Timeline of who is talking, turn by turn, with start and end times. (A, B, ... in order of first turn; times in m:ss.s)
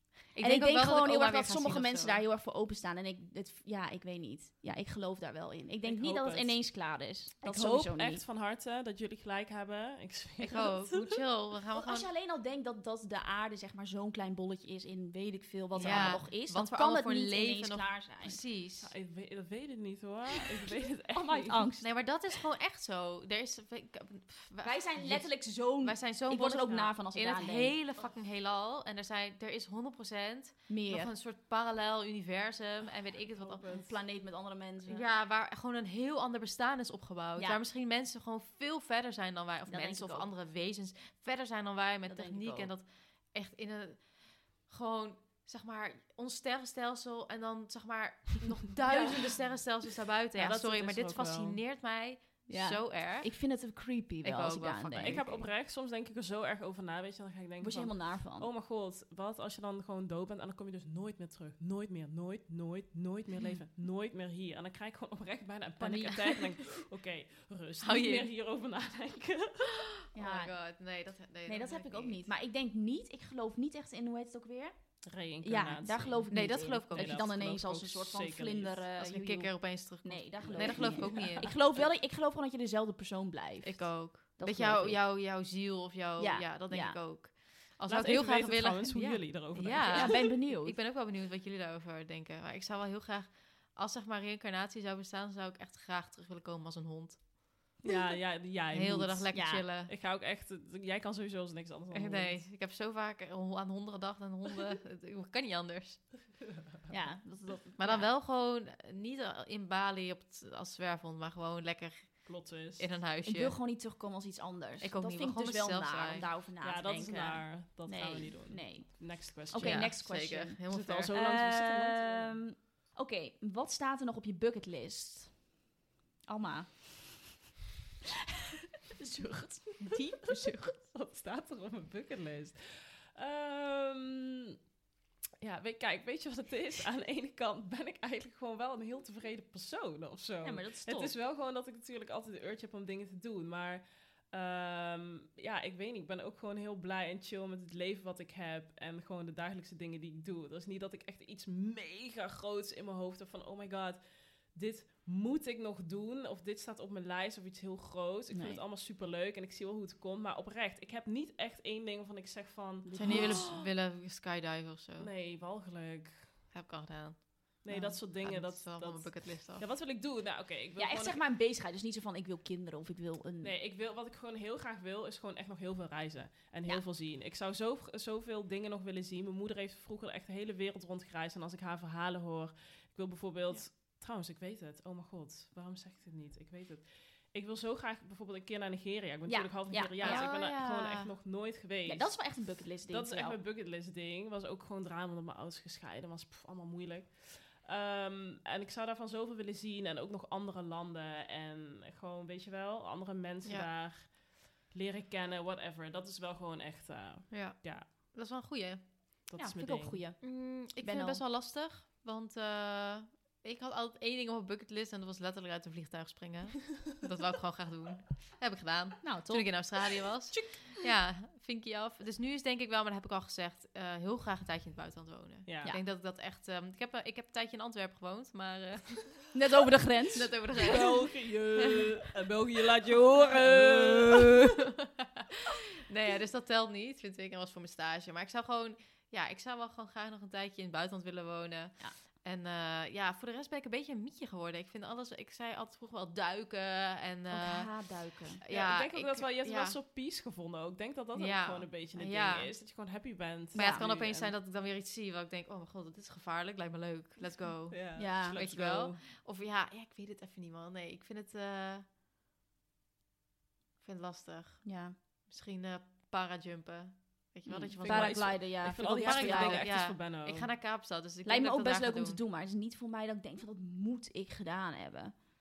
0:00.3-0:02.2 A
0:00.4-0:08.2 B
0:05.8-0:06.8 C
0:07.4-0:11.2 C
0:10.4-0:12.1 A
0:11.8-0:18.4 B
0:15.7-0:18.9 A
0:15.8-0:16.2 C
0:18.8-0:21.7 C
0:21.1-0:22.0 B
0:21.8-0:33.9 A
0:24.6-0:27.8 B
0:30.7-0:31.1 B
0:33.5-0:33.8 C
0:33.6-0:35.0 B
0:34.9-0:53.5 A
0:37.4-0:37.6 B
0:39.7-0:40.3 B
0:42.1-0:42.7 B
0:48.9-0:49.2 B
0:50.4-0:51.6 C
0:52.5-0:55.4 B
0:54.2-0:55.5 A
0:55.0-1:09.9 C
0:57.6-0:58.5 B
1:05.8-1:06.4 A
1:07.8-1:08.3 A
1:10.1-1:12.2 A
1:10.2-1:10.6 B
1:11.5-1:25.0 B
1:15.0-1:18.8 C
1:16.3-1:17.2 A
1:19.0-1:21.8 A
1:20.4-1:21.6 C
1:23.6-1:37.3 A
1:26.2-1:27.0 B
1:27.9-1:30.3 C
1:29.8-1:30.8 B
1:37.9-1:42.4 C
1:38.7-1:39.9 A
1:39.3-1:39.7 B
1:41.9-1:46.3 A
1:46.9-1:48.1 B
1:47.8-1:53.6 A
1:52.3-1:52.9 C
1:53.2-2:05.5 B
1:54.8-1:56.3 A
1:56.6-2:00.0 C
1:59.6-2:01.1 A
2:00.7-2:02.4 C
2:06.3-2:07.2 B
2:09.0-2:14.5 C
2:09.2-2:10.7 B
2:15.4-2:43.6 C
2:20.4-2:21.1 B
2:38.3-2:38.6 B
2:42.8-2:43.6 B
2:43.0-2:45.1 A
2:45.0-2:46.4 C
2:46.5-2:47.6 A
2:47.6-2:51.2 C
2:47.7-2:48.0 B
2:48.2-2:49.6 A
2:50.8-2:53.5 B
2:53.4-3:27.9 C
3:09.3-3:10.3 B
3:10.0-3:11.1 A
3:11.9-3:13.4 B
3:27.3-3:29.2 A
3:29.3-3:30.0 C
3:29.4-3:31.2 B
3:30.2-3:49.4 A
3:39.0-3:40.8 B
3:45.5-3:45.8 C
3:49.3-3:50.9 B
3:50.1-3:51.2 A
3:50.6-3:54.5 C
3:53.4-3:54.2 A
3:54.8-3:55.2 A
3:55.9-4:09.8 A
4:07.3-4:08.4 B
4:08.5-4:14.3 C
4:11.2-4:12.6 A
4:13.5-4:14.3 B
4:13.5-4:21.9 A
4:17.7-4:19.0 C
4:18.0-4:18.4 B
4:23.8-4:32.2 A
4:24.6-4:25.0 B
4:27.4-4:29.7 B
4:27.8-4:30.5 C
4:31.2-4:35.1 B